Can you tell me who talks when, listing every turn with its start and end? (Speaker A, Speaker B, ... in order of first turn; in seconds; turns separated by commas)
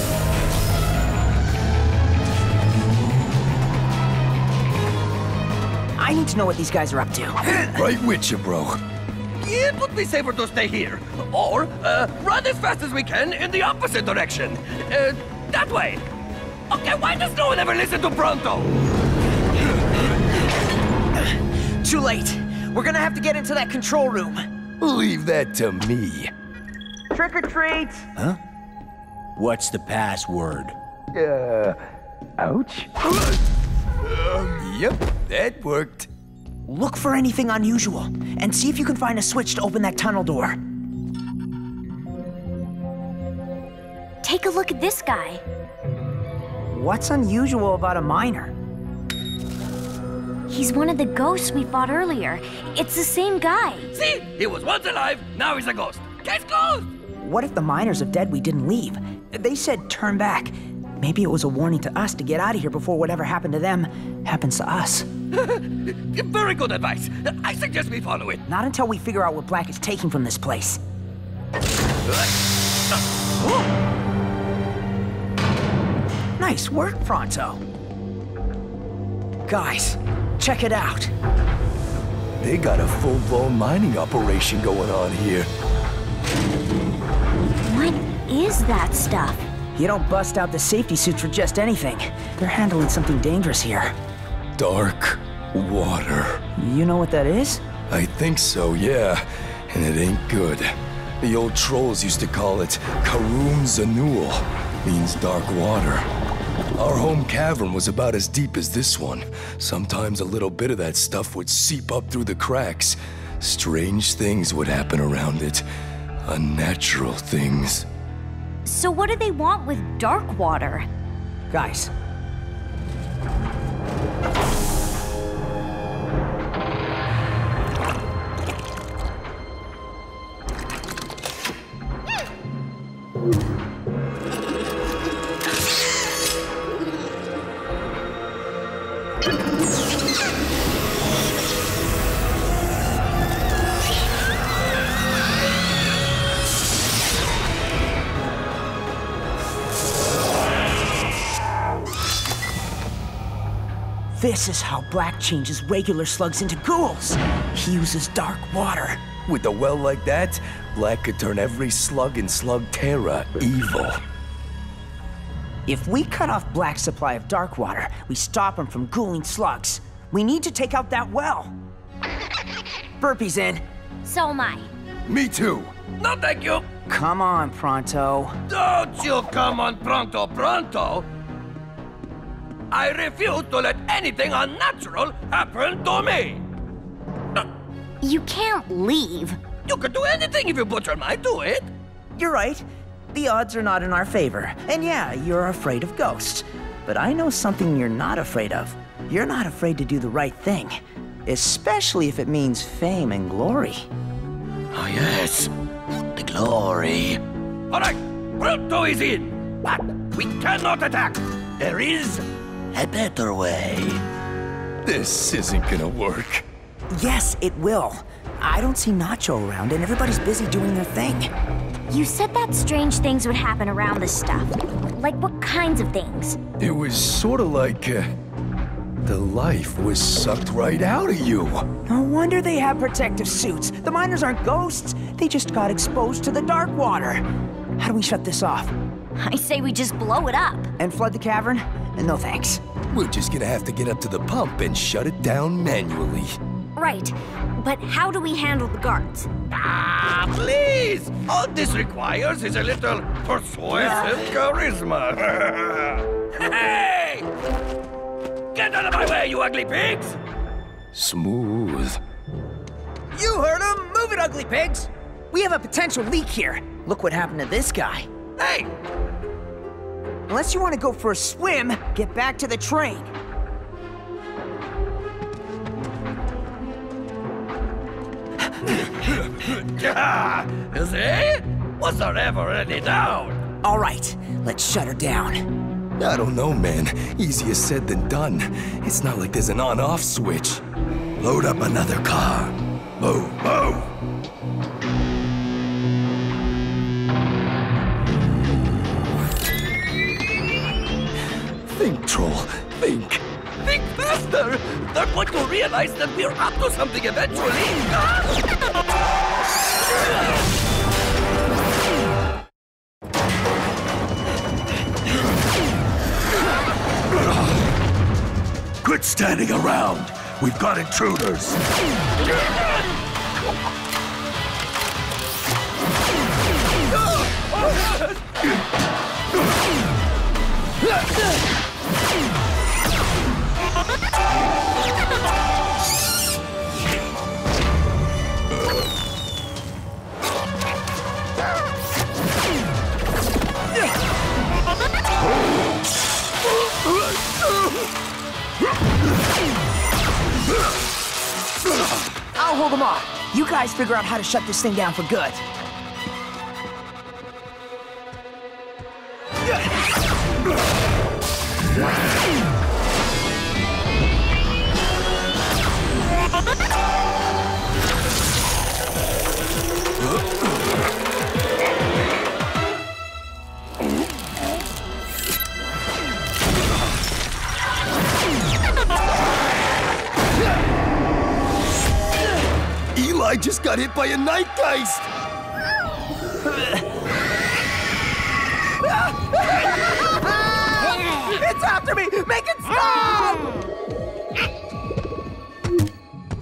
Speaker A: 6.0-7.6, Speaker B: 7.5-8.8, Speaker C: 9.4-16.0, Speaker C: 16.7-18.7, Speaker A: 21.2-24.4, Speaker B: 24.8-26.3, Speaker A: 27.1-28.1, Speaker D: 29.4-30.7, Speaker B: 31.1-31.8, Speaker B: 32.4-33.3, Speaker B: 34.1-36.1, Speaker A: 36.6-40.6, Speaker E: 44.2-45.4, Speaker A: 46.7-48.5, Speaker E: 50.5-53.9, Speaker C: 53.9-56.9, Speaker A: 57.2-65.1, Speaker C: 65.3-68.4, Speaker A: 68.5-70.8, Speaker A: 76.4-77.6, Speaker A: 79.5-81.1, Speaker B: 82.4-85.5, Speaker E: 87.7-89.4, Speaker A: 89.7-93.9, Speaker B: 94.6-96.4, Speaker A: 96.6-97.6, Speaker B: 97.9-106.1, Speaker B: 106.8-115.6, Speaker B: 116.2-117.9, Speaker E: 118.6-120.9, Speaker A: 121.5-121.9, Speaker A: 154.1-159.0, Speaker B: 159.2-164.0, Speaker A: 165.7-171.5, Speaker A: 173.0-173.6, Speaker E: 174.0-174.7, Speaker B: 175.1-175.7, Speaker C: 176.0-176.6, Speaker A: 176.9-178.4, Speaker C: 178.5-181.1, Speaker C: 182.7-186.4, Speaker E: 188.0-189.4, Speaker C: 189.7-191.7, Speaker A: 192.2-203.9, Speaker C: 204.7-205.5, Speaker C: 206.1-207.2, Speaker C: 207.7-214.0, Speaker B: 214.8-216.4, Speaker A: 216.9-221.3, Speaker E: 221.9-226.4, Speaker B: 226.6-228.1, Speaker B: 229.0-231.7, Speaker A: 231.9-237.2, Speaker A: 237.8-238.7, Speaker E: 239.2-240.7, Speaker A: 240.8-242.6, Speaker B: 242.9-246.3, Speaker E: 246.8-249.3, Speaker C: 249.5-257.3, Speaker C: 258.5-260.2, Speaker B: 260.9-262.0, Speaker A: 263.1-268.1, Speaker C: 268.4-268.7, Speaker A: 270.3-273.1, Speaker C: 278.7-283.4, Speaker A: 283.6-285.4, Speaker B: 286.0-290.6, Speaker D: 291.2-293.8, Speaker B: 301.6-303.2, Speaker C: 303.6-308.4, Speaker D: 318.8-321.6, Speaker A: 352.4-355.4, Speaker B: 382.9-385.1, Speaker A: 386.4-386.8, Speaker A: 388.9-393.6